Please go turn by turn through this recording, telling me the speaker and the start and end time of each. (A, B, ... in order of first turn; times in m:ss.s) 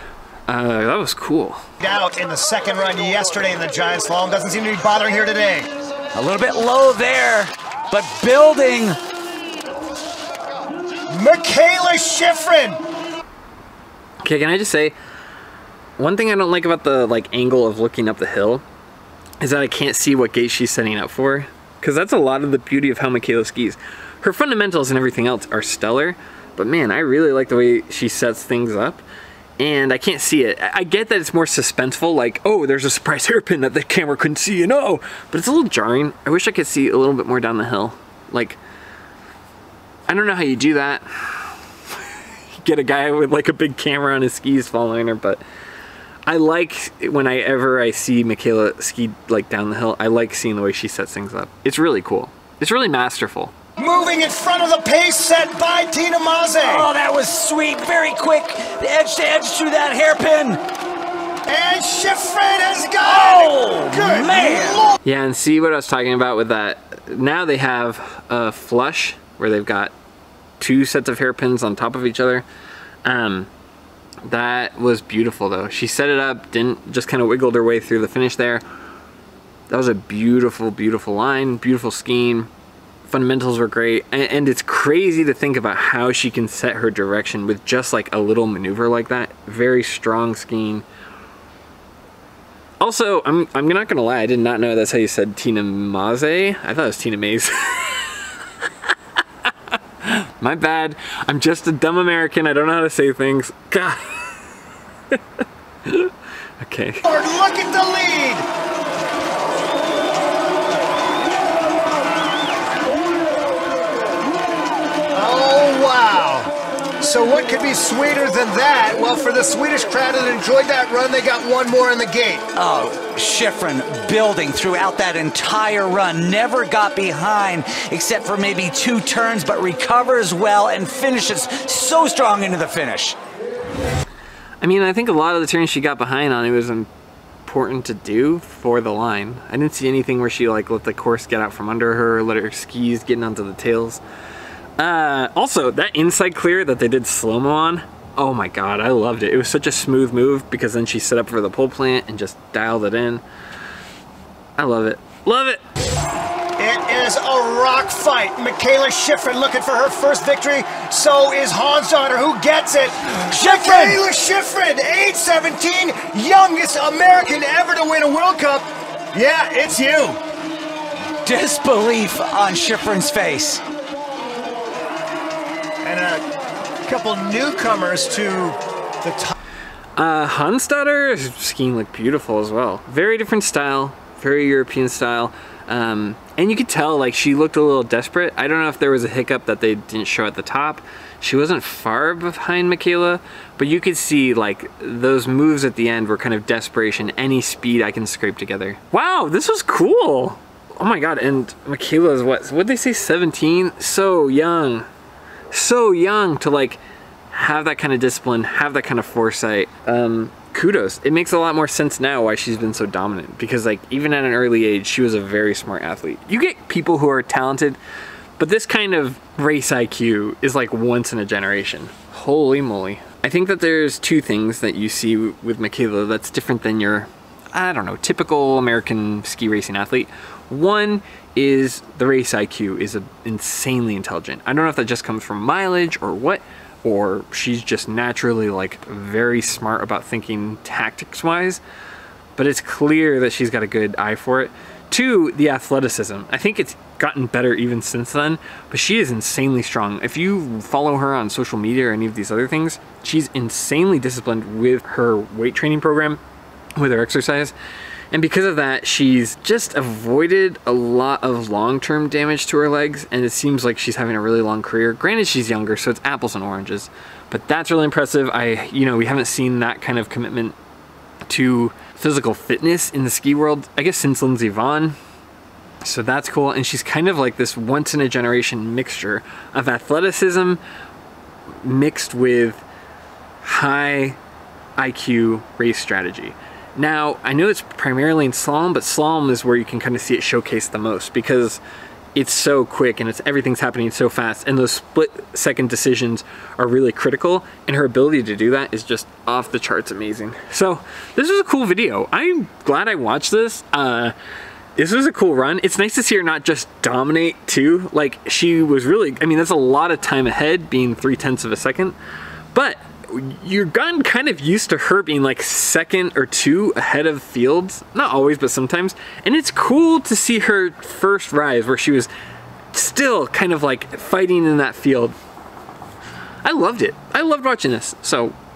0:00.5-0:01.6 A
0:01.8-0:05.7 B
0:06.1-0:09.0 C
0:11.1-0:12.8 B
0:14.2-0:14.9 A
0:16.0-0:18.6 A
0:19.4-0:29.0 A
0:29.6-0:38.6 A
0:40.1-0:41.6 A
0:42.6-0:45.4 A
0:46.3-0:53.5 A
0:53.8-0:56.9 B
0:56.6-1:00.6 C
1:01.5-1:05.0 B
1:03.0-1:04.8 C
1:05.0-1:09.9 A
1:10.6-1:12.4 A
1:13.0-1:13.5 A
1:14.2-1:18.6 A
1:19.7-1:22.5 A
1:23.1-1:30.8 A
1:32.8-1:38.3 A
1:40.0-1:44.4 A
1:45.8-1:47.0 A
1:47.1-1:48.5 B
1:55.1-2:02.5 B
2:02.5-2:13.2 C
2:14.6-2:16.9 A
2:17.4-2:24.0 A
2:24.8-2:33.2 A
2:34.6-2:35.6 A
2:36.6-2:50.2 B
2:43.2-2:44.0 C
2:51.2-2:53.6 C
2:55.8-2:56.2 B
2:56.8-2:59.3 B
3:00.0-3:24.8 A
3:25.5-3:26.8 A
3:27.3-3:37.8 A
3:38.4-4:01.6 A
4:02.4-4:16.2 A
4:16.8-4:17.5 A
4:18.1-4:30.5 A
4:31.2-4:35.0 A
4:35.8-4:40.6 A
4:41.6-4:42.6 A
4:43.4-4:44.2 A
4:44.8-4:51.6 A
4:52.1-5:04.1 A
5:04.8-5:12.0 A
5:12.5-5:22.1 A
5:22.7-5:25.1 A
5:26.4-5:28.3 A